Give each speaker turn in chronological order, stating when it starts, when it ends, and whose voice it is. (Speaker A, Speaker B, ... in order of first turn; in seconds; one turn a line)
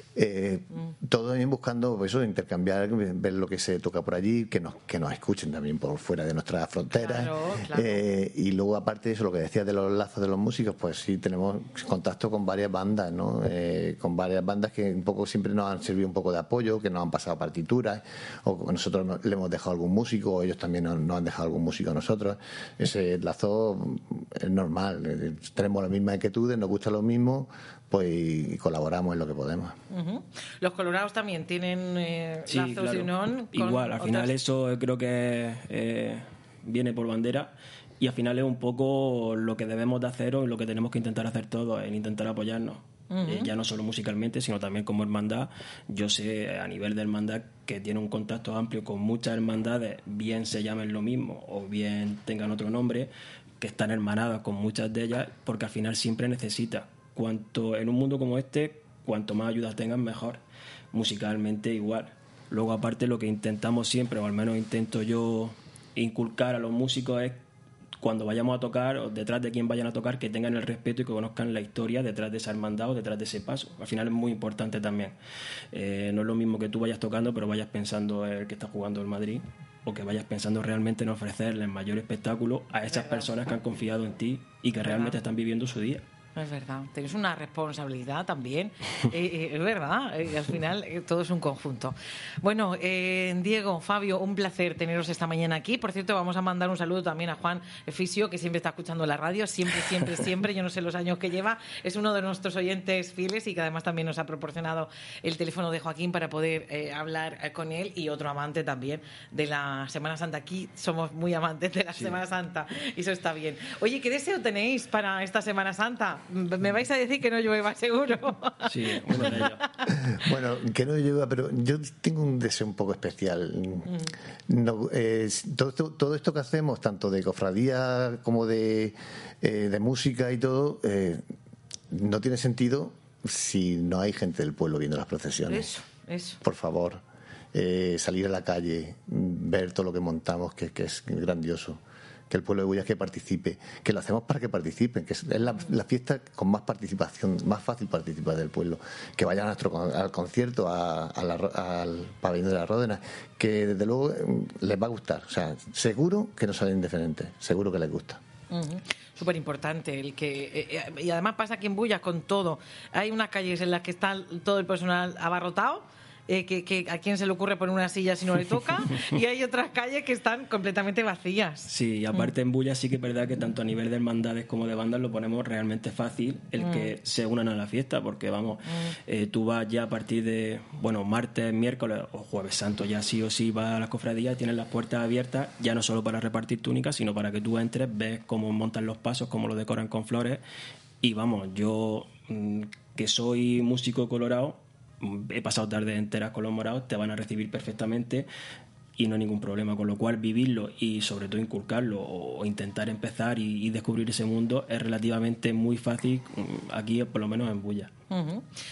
Speaker A: 0.1-29.8
Speaker B: 6.9-8.0
Speaker B: 29.9-34.3
Speaker C: 32.5-60.4
Speaker B: 43.1-43.5
Speaker C: 60.9-67.4
Speaker C: 68.0-75.1
Speaker C: 75.7-86.0
Speaker B: 82.9-83.3
Speaker B: 84.8-85.2
Speaker B: 86.3-119.9
Speaker C: 111.9-112.2
Speaker C: 118.6-119.6
Speaker A: 119.9-123.9
Speaker B: 123.9-124.1
Speaker A: 124.5-131.2
Speaker A: 131.9-135.7
Speaker B: 135.5-136.4
Speaker A: 136.4-137.0
Speaker A: 137.5-158.2
Speaker B: 158.5-172.3
Speaker C: 171.7-190.4
Speaker B: 176.6-176.9
Speaker C: 191.0-198.3
Speaker C: 199.0-207.9
Speaker B: 208.1-208.5